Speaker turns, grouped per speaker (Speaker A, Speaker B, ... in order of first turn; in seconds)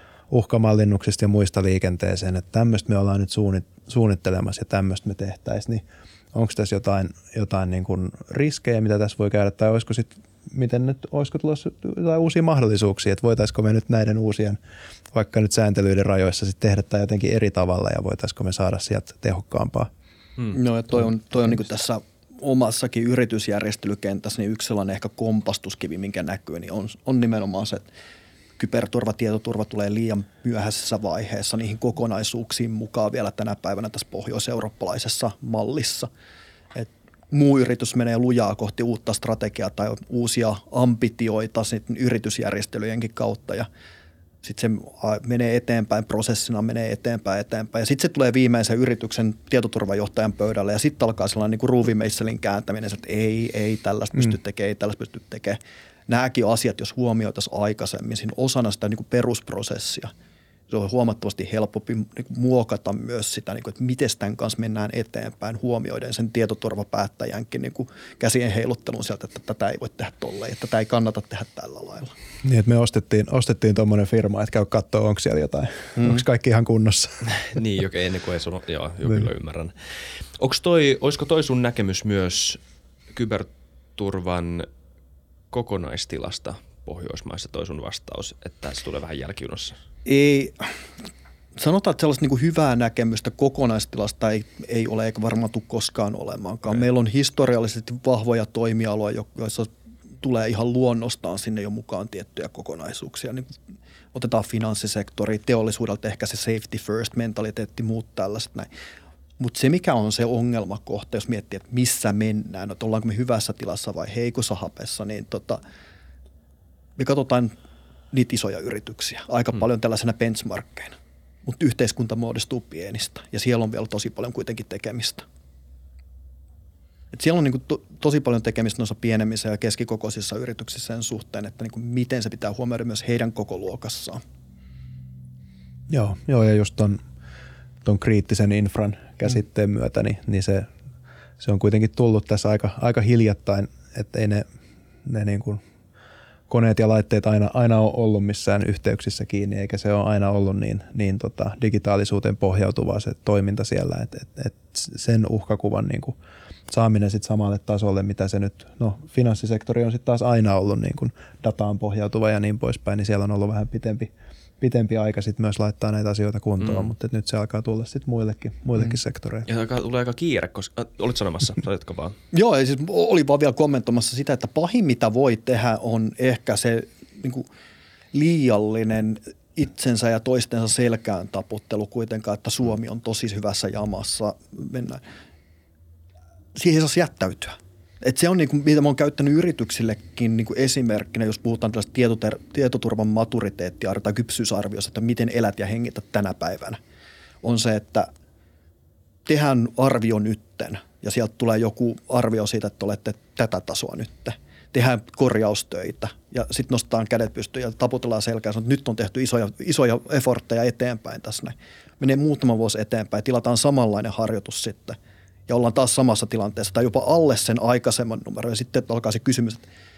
Speaker A: 0.3-14.6, 15.1-19.9, 72.4-77.2, 135.9-137.0, 137.8-140.7, 141.4-144.4, 145.0-145.6, 146.5-156.2, 156.7-169.5
Speaker B: 20.5-27.9, 28.6-36.1, 36.7-43.7, 44.4-60.1, 60.7-72.1, 76.0-76.2, 90.0-90.7, 91.5-103.5, 104.1-108.7, 109.4-115.6, 117.0-117.5, 118.1-125.2, 127.1-134.2, 172.3-177.5, 178.1-185.0, 186.5-196.8, 197.4-198.1, 199.2-219.6
Speaker C: 77.3-82.6, 83.1-84.7, 85.5-89.8, 166.6-166.9, 169.5-172.2